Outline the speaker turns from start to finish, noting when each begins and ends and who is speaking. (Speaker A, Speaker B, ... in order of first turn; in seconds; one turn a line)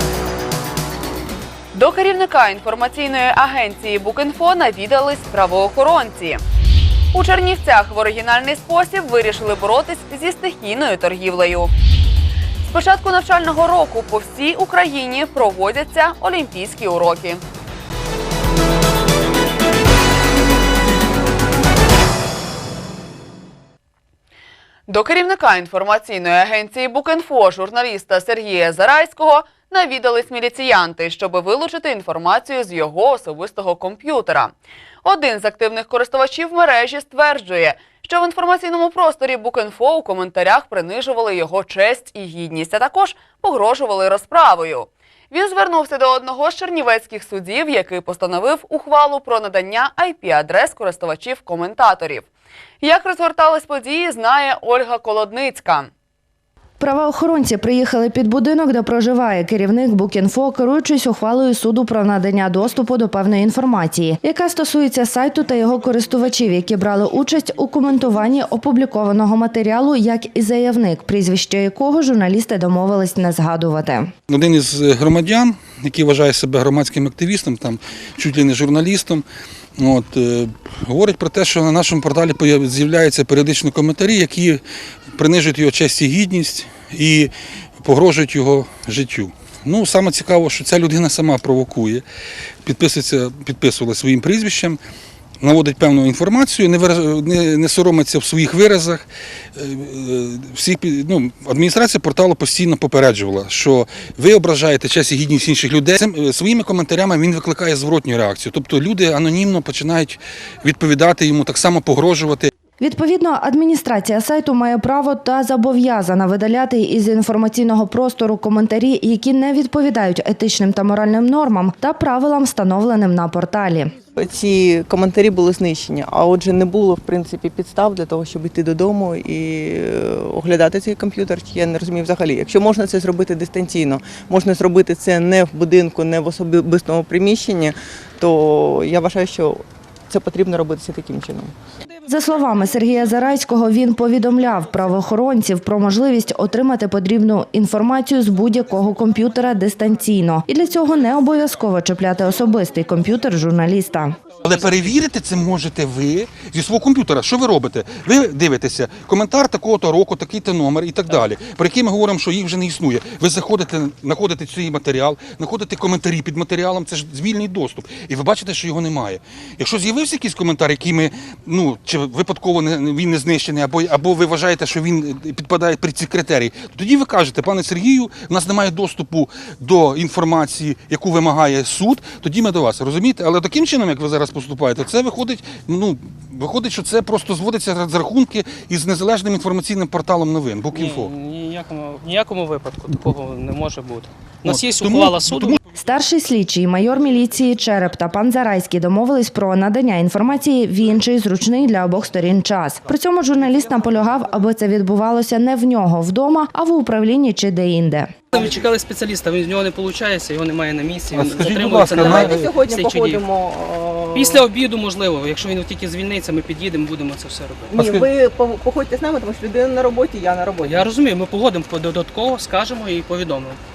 Speaker A: 1.7-6.4
Speaker A: 7.1-11.7
Speaker A: 12.7-17.4
Speaker A: 24.9-52.3
Speaker A: 52.8-55.9
Speaker B: 56.8-74.1
Speaker C: 74.3-79.2
Speaker C: 79.8-84.6
Speaker C: 85.1-92.0
Speaker C: 92.6-94.8
Speaker C: 95.4-112.5
Speaker B: 112.8-123.9
Speaker D: 124.2-141.5
Speaker B: 142.1-154.1
Speaker C: 154.4-191.1
Speaker E: 190.7-195.6
Speaker C: 194.5-195.6
Speaker B: 195.8-208.1
Speaker E: 208.3-213.3
Speaker D: 212.4-214.3
Speaker E: 214.1-218.0
Speaker D: 217.8-220.8
Speaker E: 220.6-223.6